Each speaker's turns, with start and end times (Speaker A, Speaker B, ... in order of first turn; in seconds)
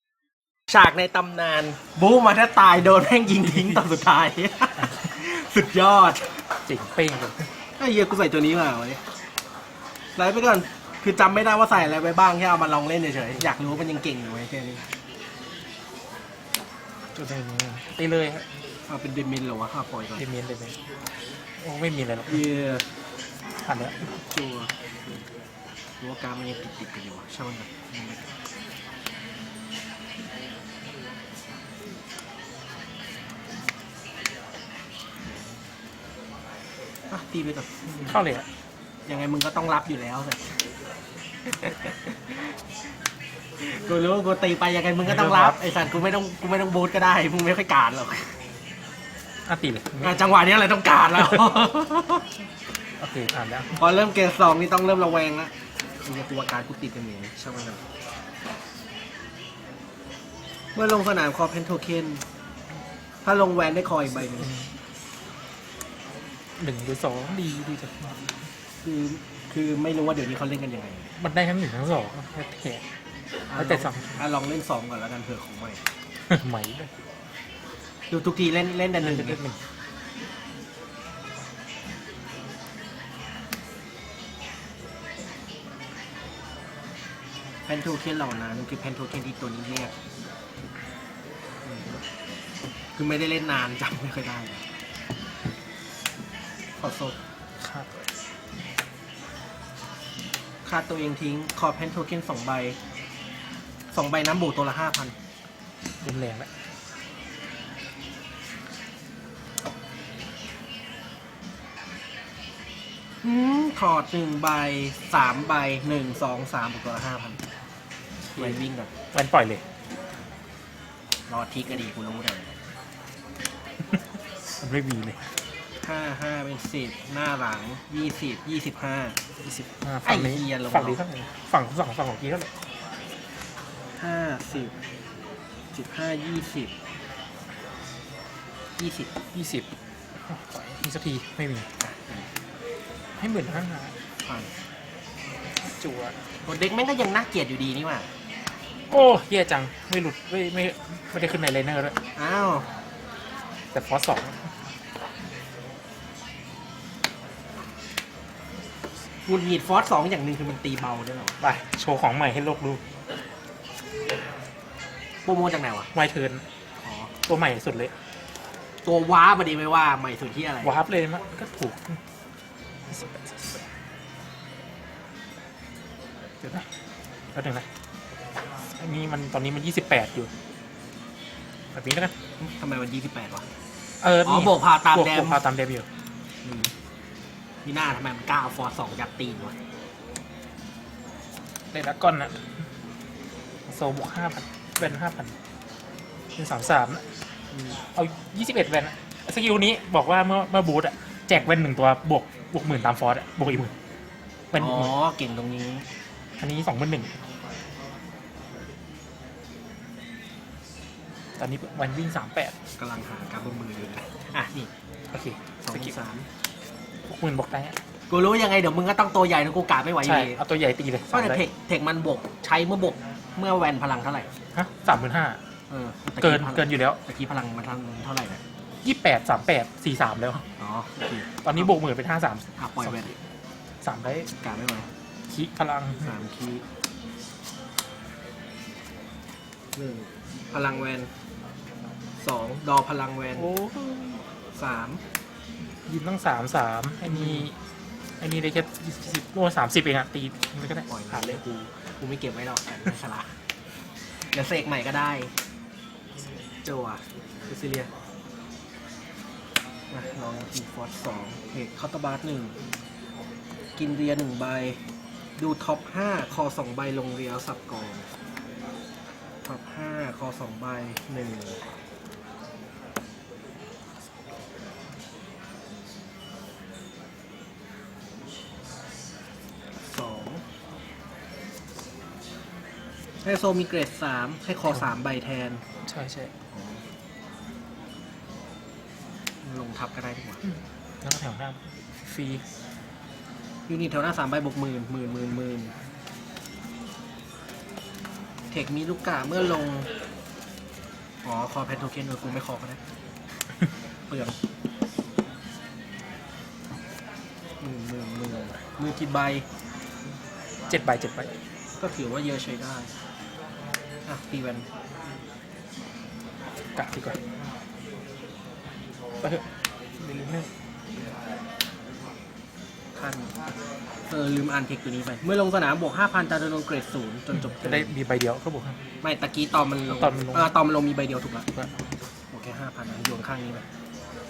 Speaker A: 0.7-6.4, 7.8-9.0, 10.2-14.8, 18.9-20.2, 22.3-22.9, 24.3-24.7, 26.0-28.3, 37.1-38.2, 39.1-40.4, 41.6-42.0, 43.6-48.3, 50.0-52.3, 53.8-55.5, 56.0-57.8, 60.8-62.2, 63.2-64.5, 68.8-71.1, 73.5-75.8, 78.1-79.4, 87.7-89.9, 91.7-92.0, 93.0-94.7, 96.8-97.2, 100.7-102.8, 103.9-105.2, 113.2-117.4, 118.4-118.9, 121.3-122.5, 125.8-129.2, 130.1-131.0, 134.0-134.7, 135.7-136.7, 138.8-139.1, 141.8-142.3, 144.2-144.5, 146.4-148.1, 152.2-152.7, 159.3-161.4, 165.2-165.9, 166.8-167.1, 168.8-170.8, 182.4-183.5, 184.2-185.4, 186.4-186.7, 187.7-189.6, 197.5-197.8, 204.6-205.9, 212.8-214.7, 215.7-216.3, 218.1-220.4, 221.1-224.3, 225.7-228.4, 230.6-231.4, 232.6-233.1, 234.3-234.9, 236.1-236.7, 239.8-241.1, 242.2-243.5, 244.6-245.0, 247.1-247.5, 250.9-253.3, 254.3-255.3, 256.6-257.9, 259.9-262.6, 263.8-264.8, 265.4-268.1, 269.4-271.6, 279.8-280.4, 283.2-285.6, 286.5-286.8, 289.4-290.4, 293.7-295.7, 298.5-299.9, 301.2-302.8, 304.1-304.4, 307.6-309.5, 311.8-312.9, 314.1-314.7, 322.9-323.3, 324.1-327.9, 329.0-331.5, 332.3-333.6
Speaker B: 6.7-7.5, 17.1-18.5, 20.2-20.8, 21.6-22.5, 23.6-24.1, 38.1-38.5, 45.0-45.6, 49.5-50.2, 51.2-51.5, 53.0-53.8, 64.2-64.7, 66.6-68.2, 71.2-72.8, 73.6-74.2, 76.3-76.9, 79.0-79.6, 97.6-98.1, 106.0-106.5, 118.3-118.6, 119.1-119.6, 124.6-125.2, 129.4-132.5, 139.3-139.7, 140.2-141.7, 143.2-143.9, 145.7-146.2, 148.9-152.0, 153.7-154.5, 161.4-162.8, 165.9-166.5, 167.2-167.9, 170.6-172.0, 172.9-173.6, 176.4-176.7, 177.3-177.7, 178.8-180.3, 181.7-182.2, 184.0-185.9, 191.7-192.5, 193.7-195.3, 196.4-197.1, 197.9-203.7, 204.5-204.9, 206.4-207.1, 211.4-212.6, 215.1-215.9, 217.1-217.8, 220.0-221.4, 224.5-225.4, 226.2-227.0, 228.8-230.5, 231.4-233.2, 233.8-234.3, 235.3-236.1, 243.4-244.2, 245.9-247.6, 248.2-251.4, 285.9-286.3, 290.5-292.4, 310.7-311.3, 316.8-317.2, 320.0-320.5, 327.3-328.8, 329.9-330.5